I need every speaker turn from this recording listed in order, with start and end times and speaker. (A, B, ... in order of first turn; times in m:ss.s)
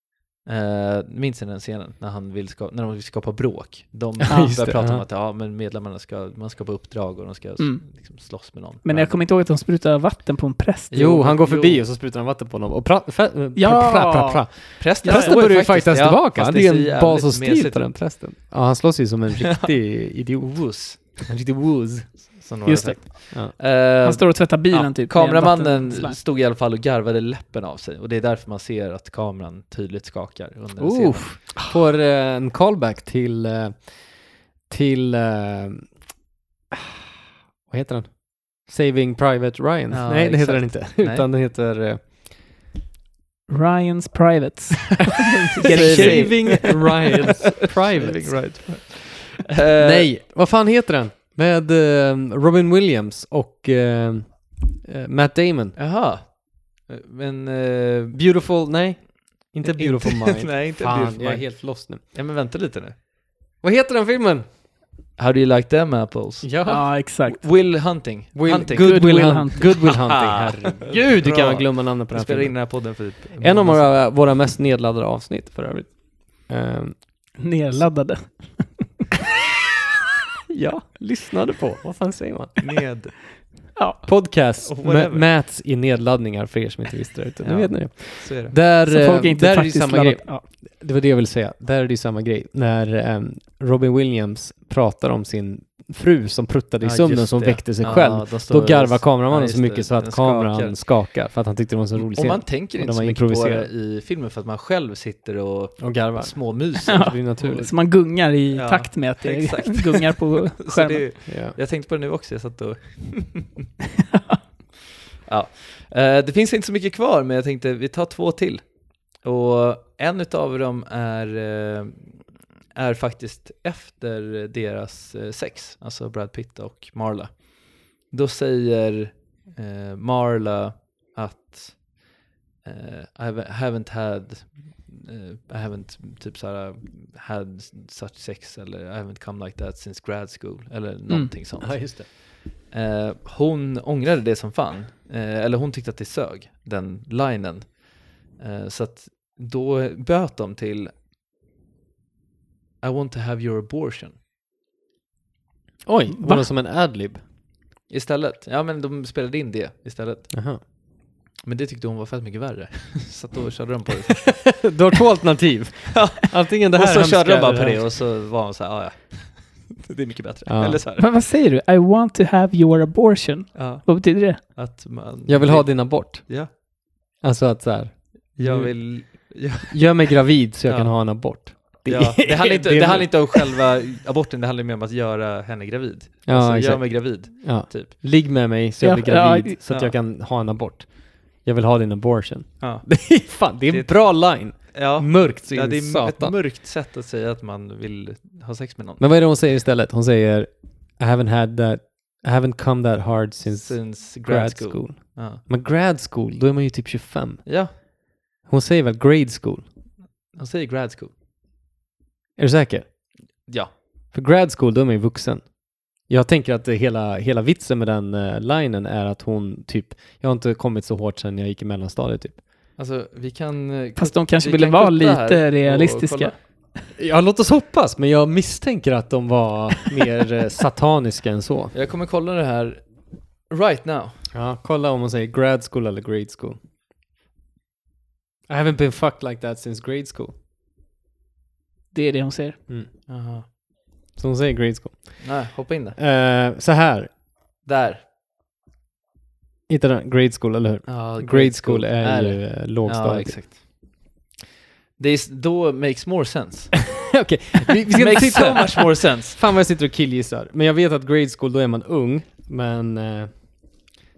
0:00.4-0:09.2 A
0:04.3-0:05.0 B
0:04.3-0:04.6 C
0:07.6-0:10.9 C
0:10.9-0:11.8 A
0:10.9-0:22.4 B
0:13.6-0:15.4 C
0:14.8-0:17.9 A
0:20.5-0:21.2 A
0:22.4-0:31.4 A
0:22.7-0:26.2 C
0:30.8-0:35.9 B
0:37.7-0:42.0 B
0:39.9-0:41.3 A
0:43.5-0:46.7 C
0:45.7-0:47.1 A
0:45.7-0:48.6 B
0:47.8-0:50.1 A
0:49.8-0:55.8 B
0:55.8-0:58.2 A
0:58.1-1:02.0 B
0:59.6-1:03.0 A
1:03.6-1:04.5 B
1:05.2-1:14.0 A
1:06.4-1:06.9 B
1:06.7-1:07.4 C
1:08.4-1:17.0 B
1:08.8-1:09.8 C
1:17.4-1:18.8 C
1:20.5-1:22.6 B
1:22.6-1:23.2 A
1:23.8-1:24.0 C
1:24.1-1:43.7 B
1:24.6-1:25.3 A
1:27.4-1:28.6 A
1:28.9-1:30.4 C
1:36.8-1:40.8 A
1:42.0-1:47.1 A
1:45.8-1:47.7 B
1:46.9-1:51.0 C
1:48.5-1:53.6 A
1:51.3-1:51.6 B
1:55.3-2:02.2 A
2:02.8-2:12.1 A
2:12.6-2:22.2 A
2:21.6-2:22.1 B
2:22.7-2:30.9 A
2:32.8-2:34.2 A
2:35.9-2:37.2 B
2:36.1-2:36.5 C
2:37.9-2:40.3 A
2:40.3-2:40.6 B
2:41.4-2:44.6 A
2:44.6-2:47.9 B
2:45.9-2:51.1 A
2:50.5-2:50.8 B
2:51.0-2:54.4 C
2:53.5-2:56.5 A
2:55.3-2:56.3 B
2:57.2-3:03.5 B
2:58.4-2:59.8 A
3:00.6-3:01.3 A
3:01.8-3:07.9 A
3:06.3-3:16.4 B
3:08.8-3:09.6 C
3:09.7-3:09.9 A
3:12.6-3:13.0 A
3:13.7-3:19.0 A
3:19.0-3:27.9 B
3:23.5-3:25.4 A
3:27.5-3:27.7 A
3:28.4-3:29.6 B
3:30.3-3:31.1 A
3:32.4-3:32.9 B
3:33.5-3:33.7 A
3:34.1-3:42.4 B
3:42.8-3:46.3 A
3:44.0-3:46.4 C
3:47.0-3:51.7 B
3:51.7-3:54.2 A
3:54.3-3:56.6 B
3:58.5-4:00.3 B
4:01.9-4:02.6 C
4:03.1-4:03.5 A
4:04.2-4:07.1 B
4:05.2-4:06.0 A
4:07.6-4:08.0 A
4:09.7-4:13.4 B
4:10.9-4:13.9 A
4:15.0-4:16.8 A
4:17.2-4:23.3 B
4:17.9-4:19.4 A